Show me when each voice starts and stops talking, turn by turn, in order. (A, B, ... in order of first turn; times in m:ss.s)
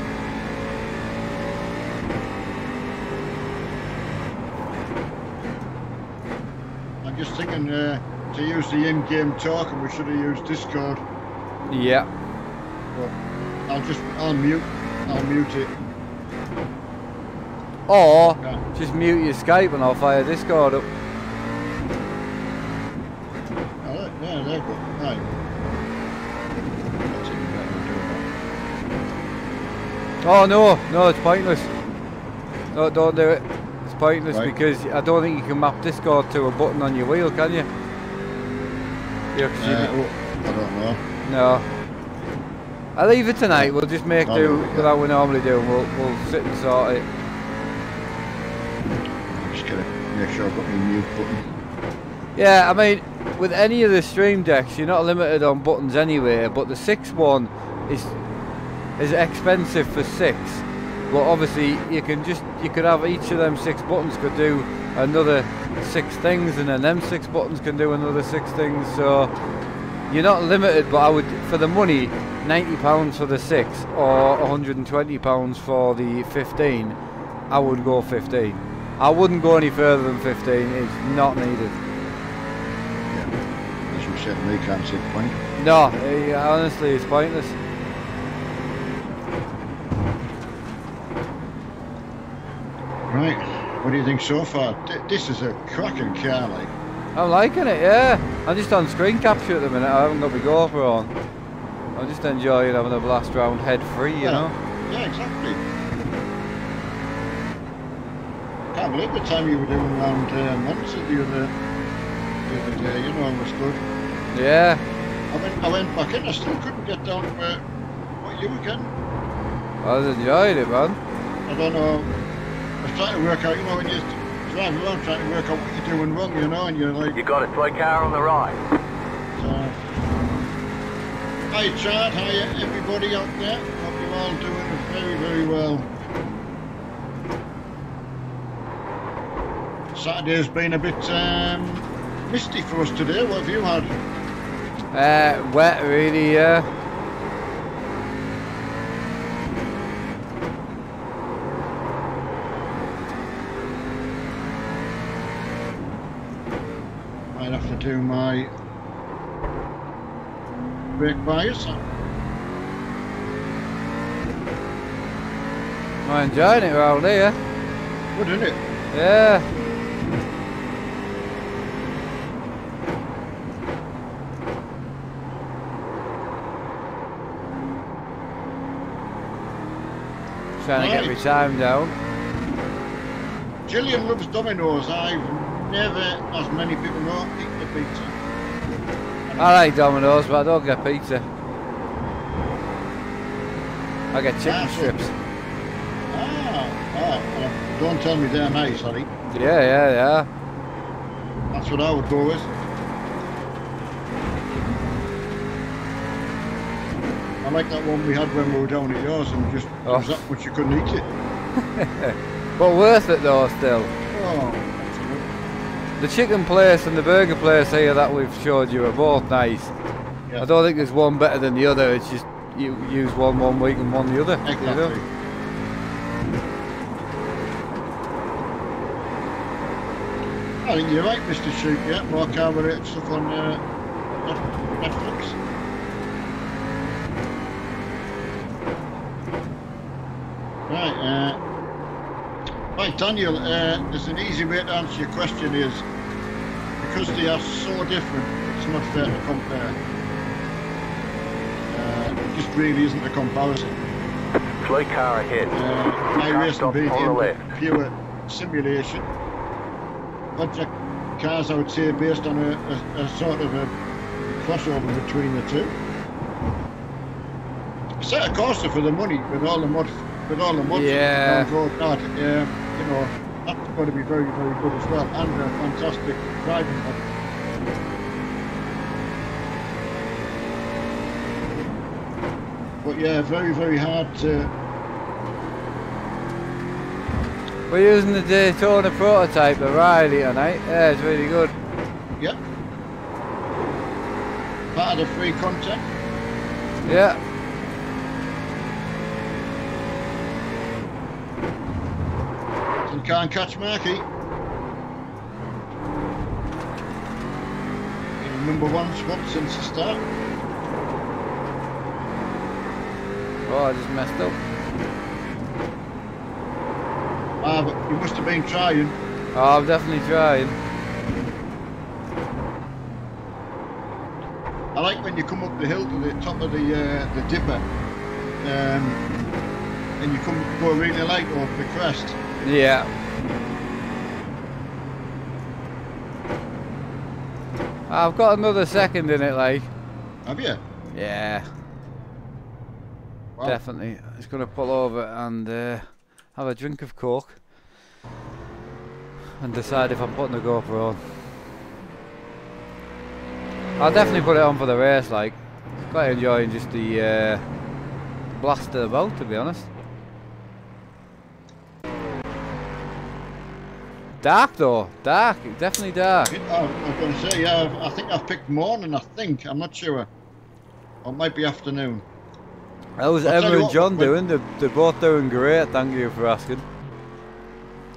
0:07.0-0:11.0 A
0:11.7-0:12.1 B
0:13.7-0:15.7 A
0:17.9-0:20.9 B
0:23.8-0:25.2 A
0:27.0-0:28.2 A
0:30.2-0:31.7 B
0:32.7-0:37.7 B
0:39.4-0:39.9 B
0:39.6-0:41.0 A
0:41.2-0:41.6 B
0:43.0-0:47.0 B
0:44.2-0:44.9 A
0:49.3-0:51.4 A
0:52.4-0:58.1 B
0:59.0-1:09.3 B
1:10.1-1:17.0 B
1:17.5-1:21.8 B
1:23.9-1:25.4 A
1:25.6-1:27.6 B
1:33.1-1:36.7 A
1:37.2-1:41.1 B
1:41.9-1:44.6 B
1:44.2-1:45.6 A
1:48.7-1:51.5 A
1:52.5-1:53.8 A
1:54.3-1:54.8 B
1:55.3-1:57.6 A
1:58.2-1:58.9 A
1:59.8-2:01.0 B
2:01.5-2:02.1 A
2:02.8-2:07.2 A
2:07.2-2:08.6 C
2:09.4-2:09.8 A
2:11.5-2:15.9 A
2:19.9-2:23.9 A
2:24.9-2:26.7 B
2:37.3-2:38.5 A
2:41.0-2:41.8 A
2:46.0-2:47.4 B
2:48.1-2:48.6 A
2:48.9-2:49.4 B
3:00.6-3:02.0 B
3:00.7-3:01.2 A
3:03.7-3:08.2 A
3:09.3-3:09.6 A
3:09.4-3:11.3 B
3:14.1-3:15.1 B
3:14.4-3:14.9 A
3:16.1-3:19.1 A
3:19.3-3:20.3 B
3:21.5-3:22.5 A
3:27.4-3:31.1 A
3:29.8-3:30.2 B
3:31.6-3:33.9 B
3:34.1-3:35.3 A
3:36.0-3:39.7 B
3:40.4-3:44.9 B
3:44.4-3:45.0 A
3:50.6-3:53.6 A
3:54.2-3:55.4 A
4:00.7-4:01.4 A
4:02.8-4:05.8 A
4:06.8-4:09.8 A
4:11.7-4:13.8 A
4:14.6-4:15.6 C
4:15.6-4:19.1 A
4:16.2-4:17.4 C
4:20.4-4:23.7 A
4:24.4-4:25.8 A
4:28.0-4:37.0 A
4:30.7-4:31.5 B
4:42.8-4:44.5 A
4:47.7-4:51.6 B
4:54.7-4:55.9 A
4:56.8-4:57.2 B
5:02.9-5:04.1 A
5:08.2-5:10.0 A
5:13.4-5:14.4 B
5:17.4-5:18.9 A
5:19.3-5:20.6 B
5:24.8-5:27.7 A
5:28.4-5:29.0 A
5:30.0-5:32.3 A
5:32.4-5:32.9 B
5:37.9-5:39.7 B
5:40.3-5:40.6 A
5:40.9-5:41.5 B
5:43.4-5:47.4 B
5:49.4-5:51.2 B
5:53.8-5:55.4 B
5:55.9-5:57.4 B
5:58.3-5:59.7 B
6:04.2-6:06.3 B
6:06.3-6:10.1 A
6:11.0-6:12.0 A
6:13.0-6:16.6 B
6:13.2-6:14.2 A